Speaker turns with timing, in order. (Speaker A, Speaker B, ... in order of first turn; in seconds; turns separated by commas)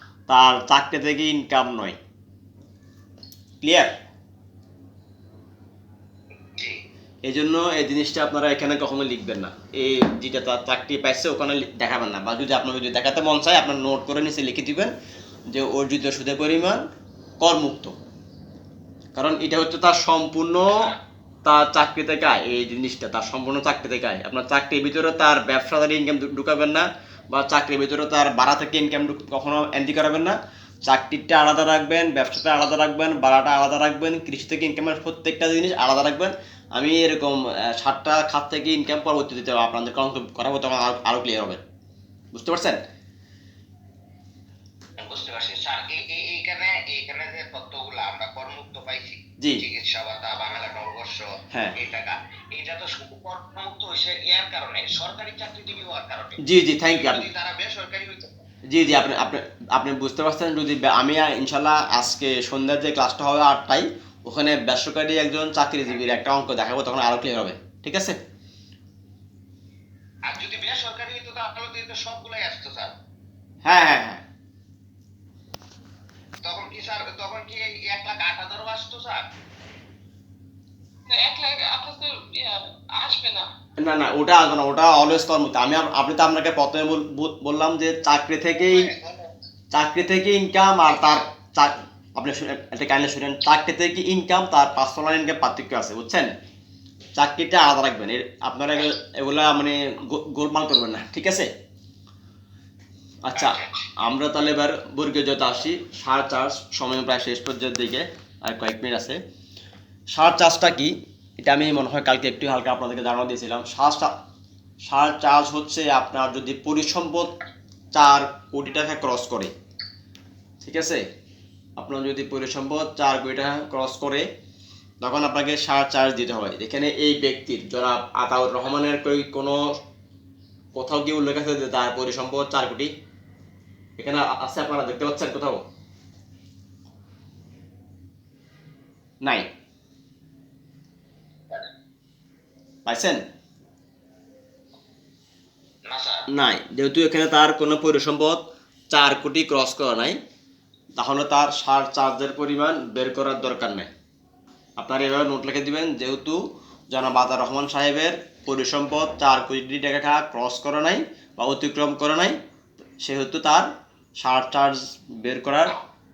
Speaker A: 0.3-2.0, Speaker A: 3.6-3.9, Speaker B: 6.5-6.8, Speaker A: 7.2-14.9, Speaker A: 15.5-16.8, Speaker A: 17.4-17.9, Speaker A: 19.2-20.9, Speaker A: 21.4-41.6, Speaker A: 42.3-42.8, Speaker B: 45.0-58.5, Speaker A: 49.4-49.6, Speaker A: 56.4-57.3, Speaker A: 58.7-68.2, Speaker B: 70.3-72.9, Speaker A: 73.7-74.2, Speaker B: 76.4-79.3, Speaker C: 81.1-83.5, Speaker A: 83.8-88.9, Speaker B: 88.5-89.3, Speaker A: 89.7-96.3, Speaker B: 90.8-91.3, Speaker A: 97.2-101.5, Speaker A: 103.2-109.2, Speaker B: 103.3-103.9, Speaker A: 110.1-114.2, Speaker A: 114.8-117.3, Speaker A: 118.0-119.5, Speaker A: 120.6-121.0, Speaker A: 121.8-124.3, Speaker A: 125.0-129.8, Speaker A: 130.8-132.9, Speaker A: 134.0-135.7, Speaker A: 139.2-139.5, Speaker A: 142.9-143.2, Speaker B: 145.9-146.3, Speaker A: 146.3-150.2, Speaker A: 151.0-153.9, Speaker A: 154.8-162.4, Speaker A: 163.0-165.8